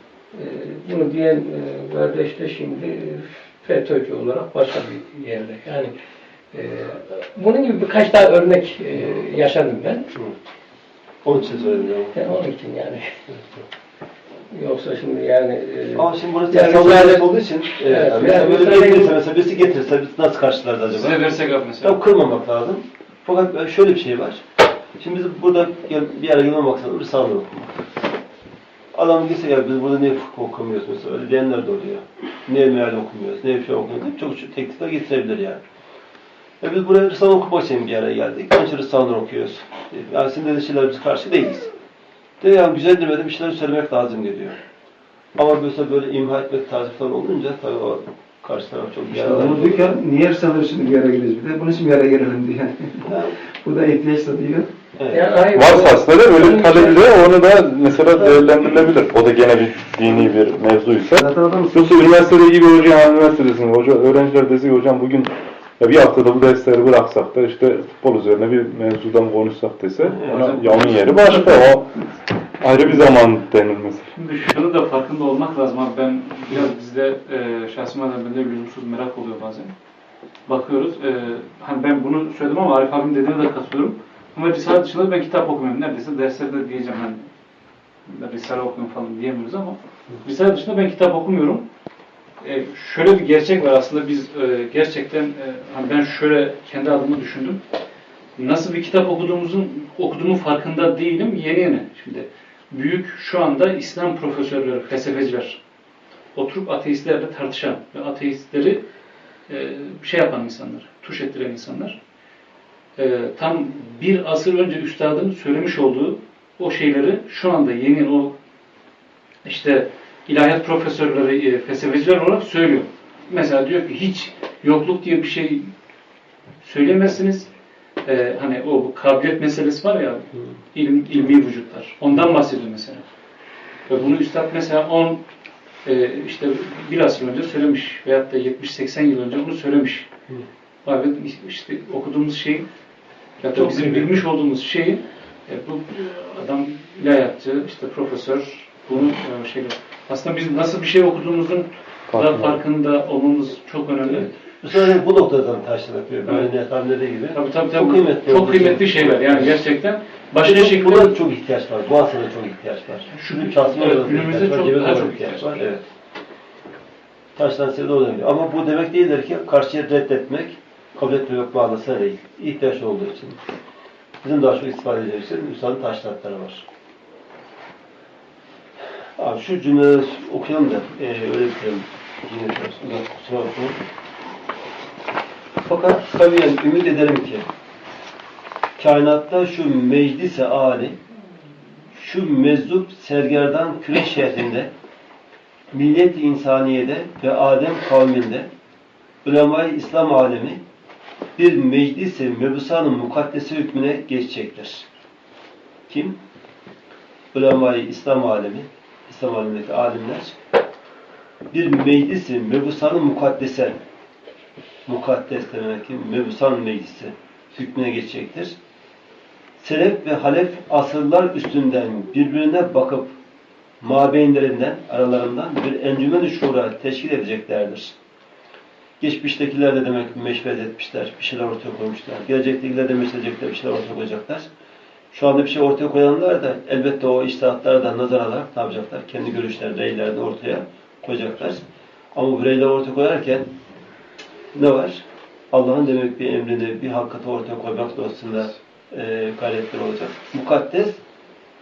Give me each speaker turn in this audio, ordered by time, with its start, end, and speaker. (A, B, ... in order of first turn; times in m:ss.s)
0:00.3-0:06.0 A
0:06.5-0:10.1 A
0:11.2-0:12.1 B
0:12.1-0:13.1 A
0:14.5-0:19.2 A
0:15.9-0:24.4 B
0:20.9-0:22.0 C
0:25.0-0:27.7 B
0:28.9-0:35.6 B
0:36.6-0:41.7 B
0:42.4-0:44.6 B
0:45.4-0:50.0 B
0:49.1-0:54.7 D
0:53.0-0:53.4 B
0:55.0-0:55.4 B
0:55.1-0:57.1 A
0:55.5-1:11.9 E
0:58.2-0:58.4 B
1:01.2-1:02.1 D
1:10.0-1:10.8 B
1:10.3-1:11.5 C
1:12.6-1:14.1 E
1:14.1-1:19.7 C
1:20.4-1:27.3 C
1:28.1-1:31.6 C
1:32.4-1:37.6 C
1:38.4-1:45.6 C
1:46.4-1:48.8 C
1:49.5-1:52.0 C
1:53.0-1:58.3 C
1:59.4-2:05.7 C
2:06.6-2:07.5 C
2:08.0-2:13.0 C
2:13.9-2:15.2 C
2:15.8-2:20.1 C
2:20.8-2:22.7 C
2:23.4-2:34.3 C
2:23.5-2:24.2 B
2:32.1-2:32.6 E
2:34.1-2:39.6 B
2:36.2-2:36.5 C
2:37.3-2:41.2 C
2:40.4-2:45.8 B
2:43.1-2:45.6 C
2:47.4-2:53.4 B
2:54.2-2:56.6 B
2:59.2-3:03.8 B
3:05.6-3:07.4 B
3:08.8-3:11.0 B
3:11.9-3:14.7 B
3:15.7-3:18.5 B
3:19.2-3:20.6 B
3:21.4-3:24.8 B
3:25.9-3:26.2 B
3:27.3-3:30.4 B
3:31.5-3:33.8 B
3:34.9-3:38.6 B
3:39.6-3:43.1 B
3:43.8-3:47.9 B
3:49.0-3:54.5 B
3:55.1-4:03.5 B
4:04.5-4:11.0 B